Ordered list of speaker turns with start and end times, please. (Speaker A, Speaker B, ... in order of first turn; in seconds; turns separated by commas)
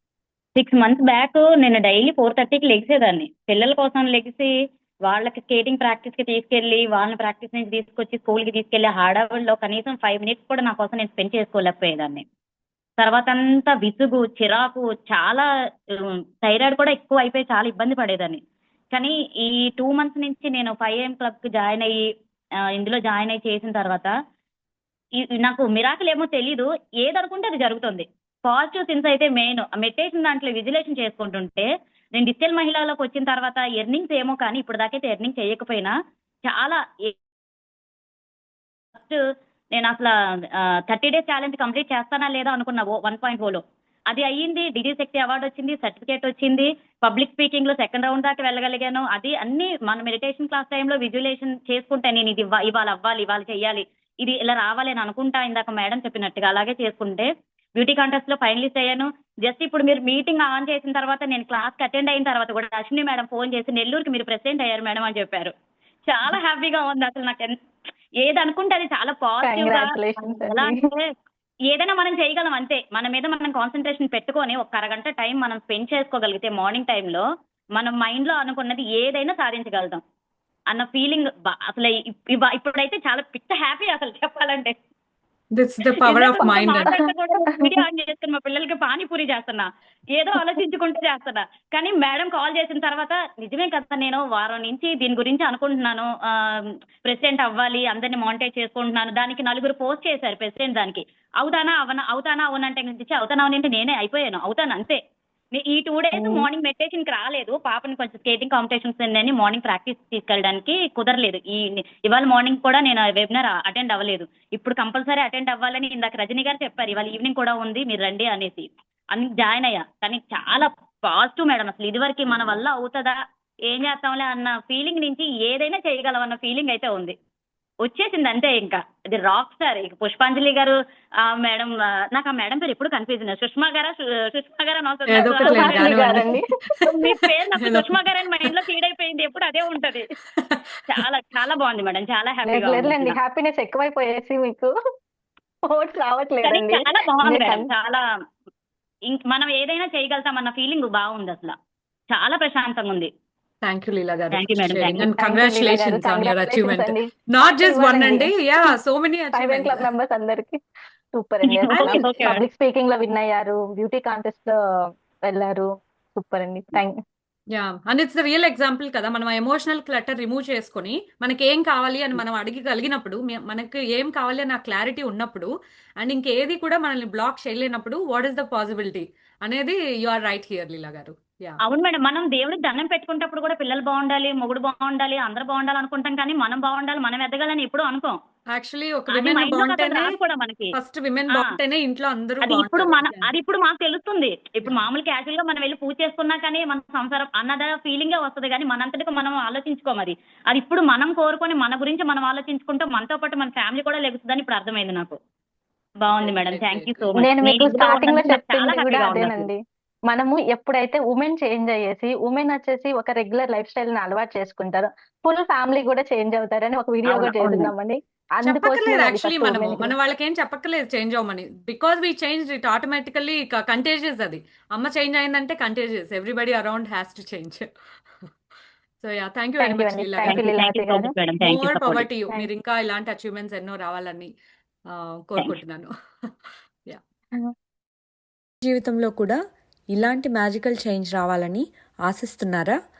Speaker A: 0.6-4.5, Speaker A: 5.0-12.2, Speaker A: 13.0-15.4, Speaker A: 16.0-18.4, Speaker A: 18.9-22.0, Speaker A: 22.7-24.1, Speaker A: 25.3-35.9, Speaker A: 36.5-37.1, Speaker A: 38.9-39.2, Speaker A: 39.7-65.5, Speaker A: 66.1-67.5, Speaker A: 68.2-71.0, Speaker B: 69.4-70.8, Speaker A: 71.7-77.2, Speaker A: 77.8-80.0, Speaker A: 80.7-84.7, Speaker C: 85.5-86.9, Speaker A: 86.0-105.0, Speaker B: 86.4-87.7, Speaker A: 105.5-123.2, Speaker B: 106.1-106.5, Speaker A: 123.7-127.1, Speaker A: 127.8-136.3, Speaker C: 135.1-138.5, Speaker B: 135.4-136.4, Speaker A: 136.9-140.1, Speaker A: 140.9-143.2, Speaker B: 142.5-144.7, Speaker B: 145.7-147.7, Speaker A: 146.4-148.0, Speaker A: 149.1-151.5, Speaker A: 152.1-153.1, Speaker C: 153.6-159.8, Speaker A: 154.3-155.1, Speaker B: 155.1-158.3, Speaker B: 159.3-160.6, Speaker B: 161.1-164.6, Speaker A: 161.5-162.4, Speaker C: 161.7-162.3, Speaker B: 165.3-166.9, Speaker C: 167.5-181.6, Speaker A: 181.7-188.2, Speaker C: 188.5-190.1, Speaker A: 189.1-190.7, Speaker C: 190.7-193.3, Speaker A: 191.3-191.6, Speaker A: 192.4-205.2, Speaker A: 206.0-209.5, Speaker C: 206.2-207.8, Speaker B: 207.2-209.6, Speaker B: 210.1-219.9, Speaker A: 217.1-217.7, Speaker C: 218.4-227.7, Speaker C: 229.0-230.5, Speaker B: 229.6-231.1, Speaker A: 230.3-232.1, Speaker C: 231.4-234.3, Speaker C: 234.9-235.9, Speaker D: 238.6-239.4, Speaker D: 239.9-242.7, Speaker C: 240.0-240.4